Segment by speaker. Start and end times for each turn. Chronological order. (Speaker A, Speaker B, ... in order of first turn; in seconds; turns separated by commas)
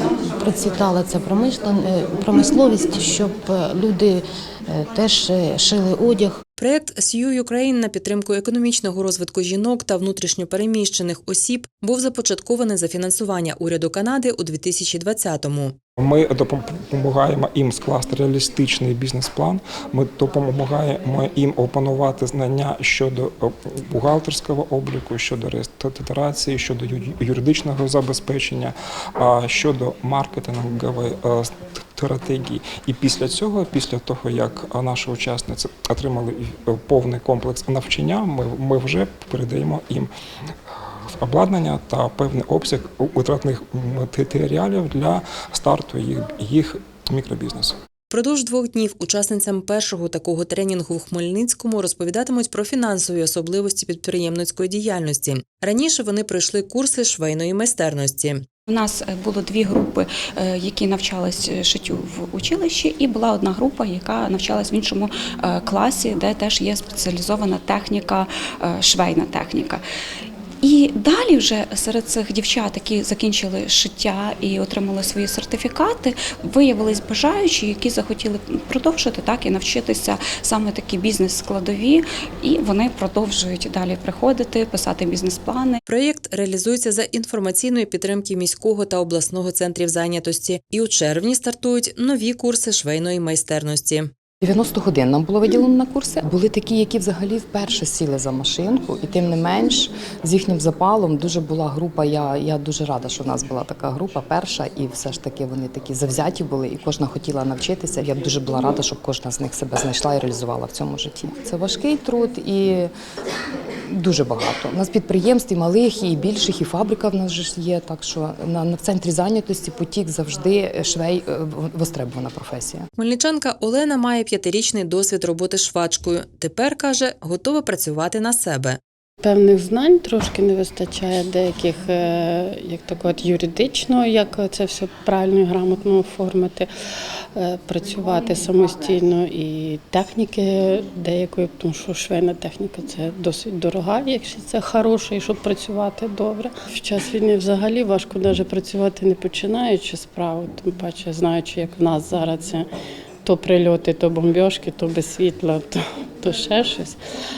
Speaker A: 0.2-6.4, Speaker B: 6.6-15.7, Speaker C: 16.0-40.1, Speaker C: 41.2-47.7, Speaker B: 48.1-58.4, Speaker D: 58.7-69.8, Speaker D: 70.6-85.8, Speaker B: 85.9-94.1, Speaker E: 94.4-112.9, Speaker E: 113.9-122.9, Speaker B: 123.0-128.8, Speaker F: 129.2-136.7, Speaker F: 137.3-152.7, Speaker F: 153.2-157.0